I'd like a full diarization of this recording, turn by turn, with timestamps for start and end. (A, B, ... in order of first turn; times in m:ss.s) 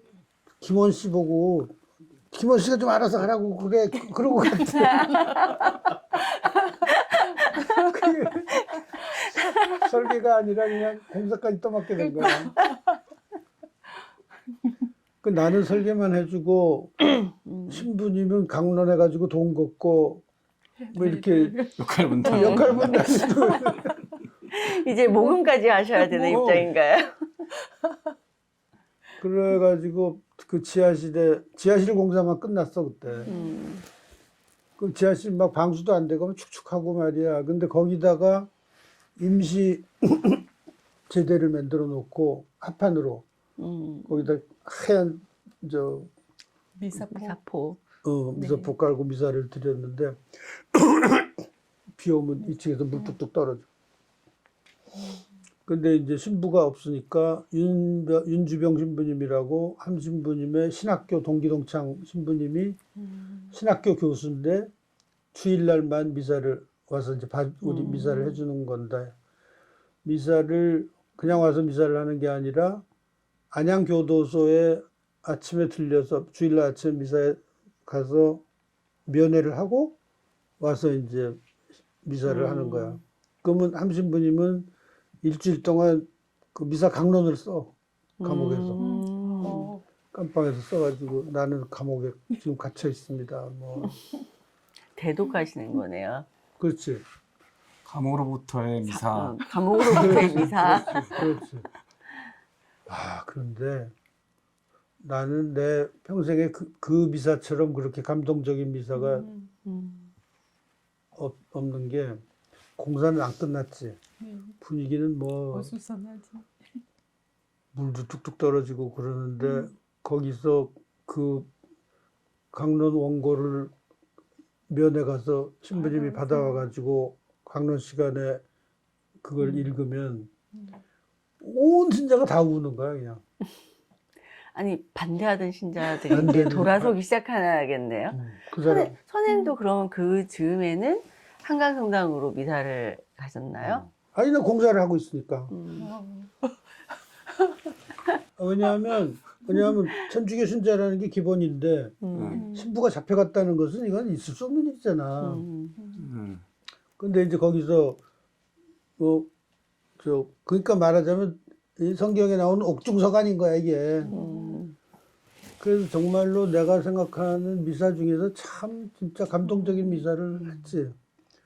0:00.6-0:01.8 A
0:02.3-0:05.3 A
0:04.7-0:05.8 B
0:05.0-0:05.5 C
0:06.9-0:07.7 B
0:07.4-0:07.7 C
0:07.7-0:08.7 A
0:09.7-0:12.5 A
0:12.0-0:13.0 C
0:15.2-0:20.2 A
0:17.4-0:17.9 B
0:20.8-0:24.0 C
0:20.9-0:21.6 A
0:21.8-0:23.3 D
0:22.2-0:24.0 A
0:22.3-0:22.7 B
0:24.5-0:27.2 B
0:25.1-0:26.4 C
0:26.3-0:26.7 A
0:29.2-0:33.3 A
0:33.2-0:33.6 C
0:33.2-0:33.8 B
0:34.8-0:38.5 A
0:39.2-0:40.4 A
0:41.1-0:43.2 A
0:43.6-0:44.3 B
0:44.1-0:46.1 A
0:46.8-0:47.4 C
0:47.0-0:47.8 B
0:48.0-0:51.4 A
0:48.3-0:48.7 C
0:51.9-0:53.7 A
0:52.4-0:53.1 C
0:55.0-0:55.2 C
0:55.6-1:02.8 A
1:03.0-1:03.5 C
1:03.5-1:04.7 A
1:05.3-1:09.1 A
1:07.6-1:08.4 B
1:10.0-1:12.8 A
1:13.5-1:18.4 A
1:19.1-1:20.0 A
1:20.6-1:21.4 A
1:22.0-1:24.7 A
1:22.2-1:23.0 B
1:25.2-1:28.8 A
1:28.2-1:29.7 B
1:28.8-1:29.8 C
1:30.1-1:34.0 A
1:35.0-1:36.3 B
1:36.6-1:37.0 A
1:37.8-1:41.1 D
1:38.9-1:41.2 B
1:39.9-1:41.7 A
1:42.9-1:43.9 A
1:45.0-1:49.3 A
1:48.9-1:49.5 C
1:49.6-1:50.1 B
1:51.1-1:52.2 A
1:52.8-1:54.0 A
1:54.2-1:54.5 C
1:54.6-1:55.7 A
1:55.5-1:56.5 C
1:57.7-2:01.5 A
1:59.4-1:59.7 C
2:02.5-2:03.7 A
2:04.7-2:08.4 A
2:05.7-2:06.6 C
2:09.2-2:10.3 A
2:11.4-2:13.2 A
2:14.5-2:23.8 B
2:16.1-2:16.6 C
2:16.1-2:16.9 A
2:18.1-2:18.9 A
2:19.3-2:19.5 C
2:24.0-2:25.5 A
2:25.5-2:25.9 B
2:25.8-2:26.5 C
2:28.4-2:35.4 A
2:32.0-2:32.5 B
2:32.1-2:32.4 D
2:32.3-2:32.7 C
2:35.2-2:35.8 B
2:35.8-2:36.0 C
2:36.0-2:36.4 D
2:37.0-2:38.0 A
2:39.0-2:39.3 A
2:40.0-2:44.1 A
2:44.0-2:44.6 C
2:44.1-2:44.8 B
2:45.6-2:50.9 A